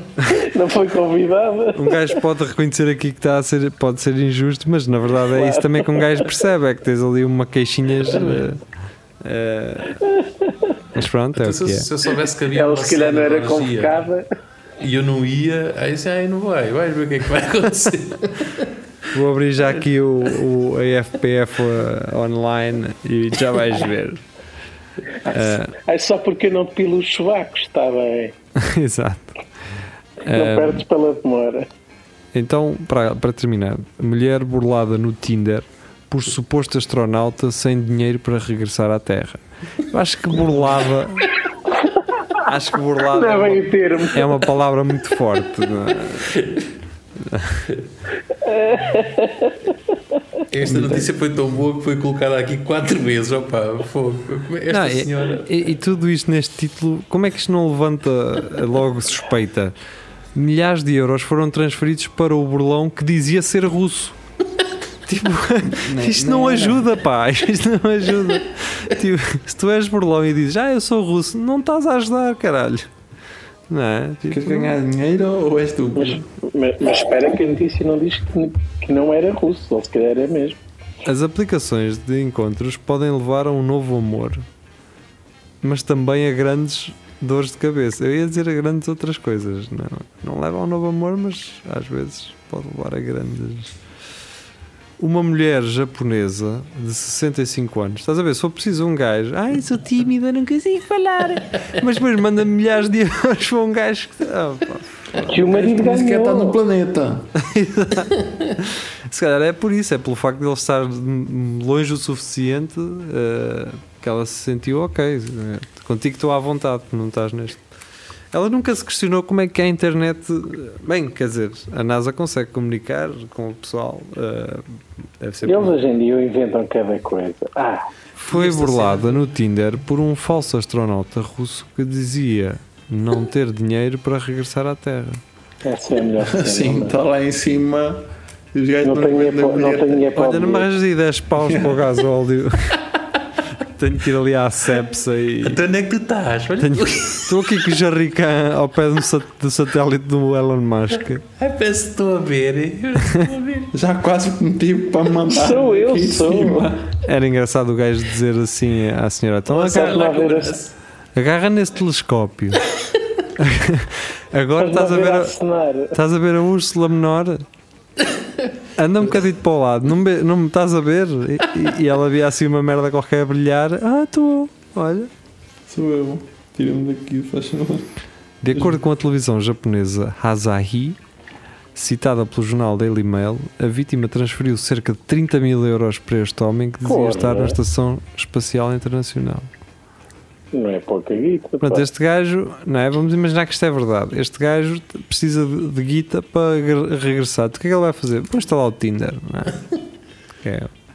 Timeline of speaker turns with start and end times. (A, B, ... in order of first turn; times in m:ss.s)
0:00.3-0:02.2 A
0:01.8-0:08.6 B
0:05.3-0:06.0 A
0:08.1-0:08.5 C
0:09.2-0:10.0 B
0:10.1-0:10.7 A
0:10.9-0:11.9 B
0:11.4-0:14.0 C
0:12.5-0:14.3 A
0:14.8-0:18.7 C
0:19.1-0:24.2 B
0:25.2-0:28.3 A
0:25.3-0:25.7 B
0:28.6-0:29.3 B
0:30.2-0:30.8 B
0:30.3-0:31.7 A
0:32.3-0:41.3 B
0:41.9-0:42.4 A
0:42.4-0:46.4 B
0:43.1-0:44.5 A
0:46.1-0:46.7 C
0:47.2-0:47.7 B
0:48.4-0:49.6 A
0:50.5-0:55.6 C
0:54.7-0:59.7 B
1:00.4-1:04.2 B
1:05.1-1:12.9 B
1:05.7-1:06.9 D
1:13.7-1:14.8 B
1:14.3-1:16.2 D
1:16.0-1:20.6 A
1:21.0-1:24.4 B
1:25.6-1:33.7 B
1:35.0-1:45.3 B
1:45.2-1:46.6 A
1:45.2-1:47.3 D
1:47.4-1:57.6 B
1:48.2-1:48.6 C
1:58.3-2:05.8 B
2:05.4-2:07.9 A
2:08.2-2:15.2 B
2:08.3-2:09.2 C
2:15.6-2:17.0 A
2:16.2-2:20.0 D
2:18.8-2:20.7 A
2:20.2-2:22.8 B
2:21.4-2:21.8 D
2:23.6-2:25.6 B
2:25.4-2:27.6 C
2:26.6-2:31.2 B
2:31.4-2:33.7 C
2:33.7-2:37.0 D
2:35.3-2:36.7 A
2:37.0-2:40.0 B
2:39.5-2:40.7 C
2:39.5-2:40.6 A
2:41.2-2:42.6 B
2:43.4-2:45.3 B
2:44.6-2:46.0 A
2:45.9-2:47.4 B
2:48.8-2:55.1 B
2:55.7-2:57.9 D
2:58.4-3:01.0 B
2:58.5-2:58.8 D
3:01.8-3:09.5 B
3:06.8-3:07.6 A
3:10.5-3:11.8 A
3:11.6-3:19.6 B
3:20.4-3:20.7 B